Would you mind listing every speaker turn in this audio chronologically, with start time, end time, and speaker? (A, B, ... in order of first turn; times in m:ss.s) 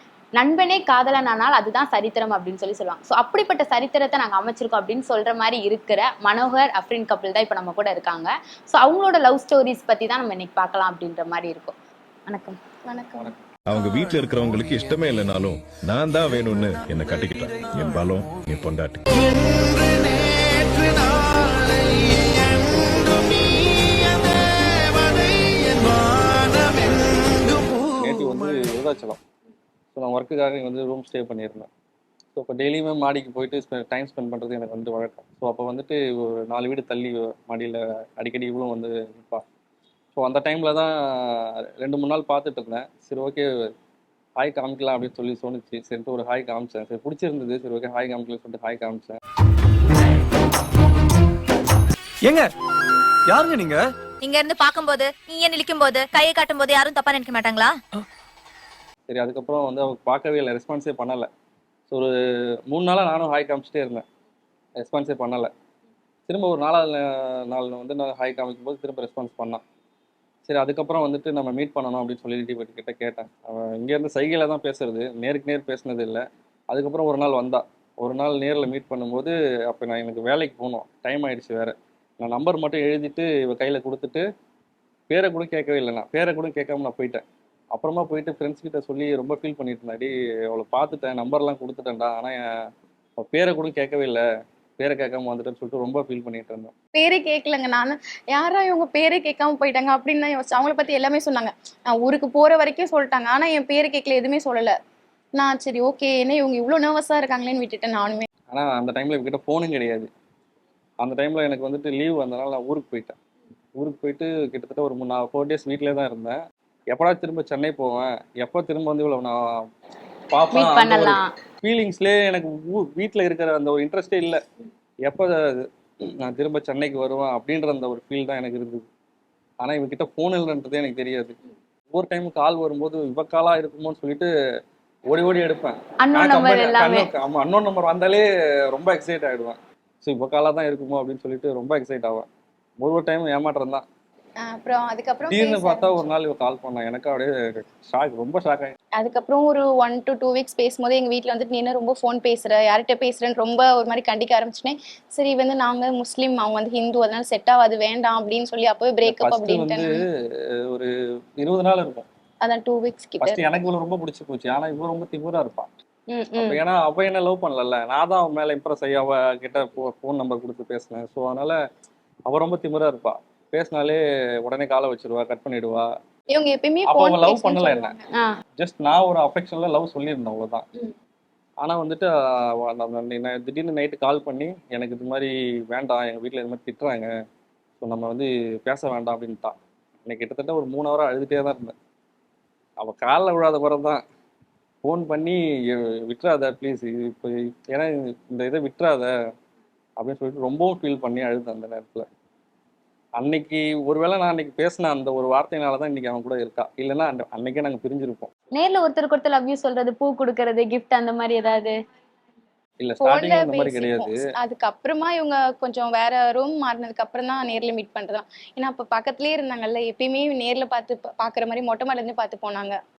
0:00.4-0:11.8 A
0:12.3-0:12.6 A
0:12.8-0:13.3 B
0:13.6-0:19.0 C
0:17.4-0:18.0 D
0:19.4-0:21.8 D
0:22.6-0:23.0 E
0:24.9-0:26.6 D
0:26.6-0:29.2 E
0:30.0-0:31.7 E
0:32.3-0:39.4 E
0:40.1-0:43.7 E
0:44.4-0:49.2 E
0:52.2-0:52.5 D
0:53.3-0:53.8 D
0:54.2-0:57.8 F
0:59.1-1:01.3 E
1:02.7-1:04.0 E
1:04.8-1:05.5 E
1:06.3-1:09.6 E
1:10.4-1:24.2 E
1:25.1-1:32.5 E
1:33.2-1:34.2 E
1:34.8-1:36.7 E
1:36.9-1:44.7 B
1:45.4-1:48.3 B
1:48.5-1:50.1 E
1:51.0-1:53.1 E
1:53.8-1:56.4 E
1:56.9-1:59.6 E
2:00.3-2:04.4 E
2:00.5-2:01.3 A
2:05.0-2:08.9 E
2:09.6-2:11.3 E
2:11.9-2:14.3 E
2:15.1-2:22.3 E
2:16.0-2:17.1 A
2:22.8-2:23.8 E
2:24.4-2:26.1 B
2:25.3-2:28.8 E
2:29.0-2:40.0 B
2:39.0-2:42.1 E
2:42.4-2:43.4 B
2:43.2-2:45.7 E
2:46.1-2:46.6 B
2:46.4-2:51.6 E
2:52.3-2:55.9 E
2:56.3-2:58.1 B
2:56.8-2:58.0 E
2:58.6-3:00.6 E
3:01.6-3:07.1 E
3:07.8-3:11.7 E
3:12.8-3:14.0 E
3:14.8-3:19.1 E
3:20.0-3:22.1 E
3:23.2-3:28.3 E
3:28.5-3:31.8 A
3:32.8-3:34.2 E
3:33.0-3:42.8 B